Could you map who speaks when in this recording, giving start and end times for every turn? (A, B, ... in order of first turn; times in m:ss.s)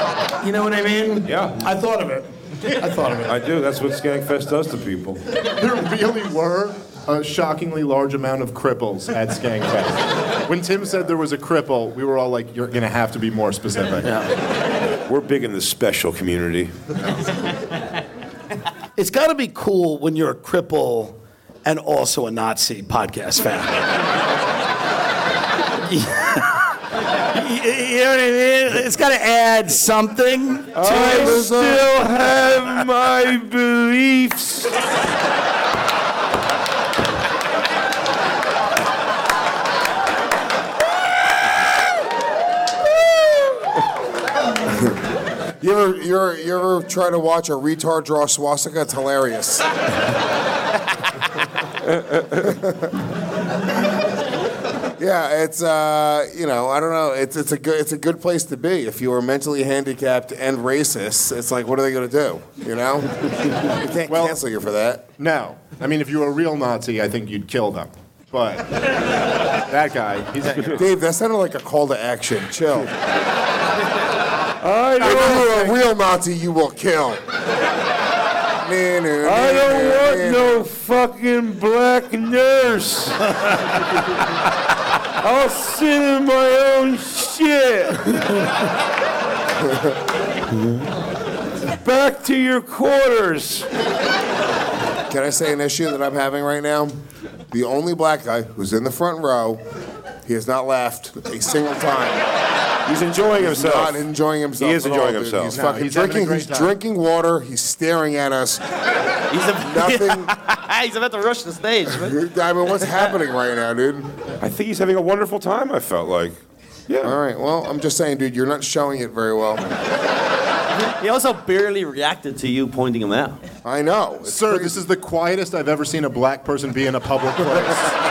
0:00.4-0:03.4 A
0:01.2-0:01.6 B
0:03.2-0:05.2 B
0:05.6-0:14.1 C
0:14.0-0:14.3 A
0:15.1-0:17.0 B
0:19.0-0:23.8 A
0:25.8-0:26.5 A
0:27.3-0:31.8 A
0:30.7-0:34.7 B
0:30.8-0:32.0 D
0:45.6-0:49.7 D
0:52.3-0:53.0 D
0:55.0-1:05.1 D
1:04.1-1:04.4 C
1:05.2-1:09.0 C
1:09.7-1:10.8 C
1:10.7-1:12.9 D
1:14.6-1:15.5 B
1:15.0-1:15.7 C
1:15.0-1:17.2 D
1:18.6-1:20.7 D
1:19.2-1:23.6 B
1:25.2-1:28.2 B
1:31.8-1:33.7 B
1:35.1-1:37.0 D
1:37.5-1:39.6 D
1:40.2-1:42.2 D
1:42.8-1:44.0 B
1:43.3-1:48.6 D
1:44.6-1:45.6 B
1:45.5-1:46.7 C
1:49.3-1:52.2 E
1:49.6-1:50.3 D
1:51.9-1:54.1 D
1:54.4-1:57.2 B
1:57.0-1:59.7 D
2:01.0-2:03.4 E
2:03.6-2:04.8 D
2:04.2-2:08.0 C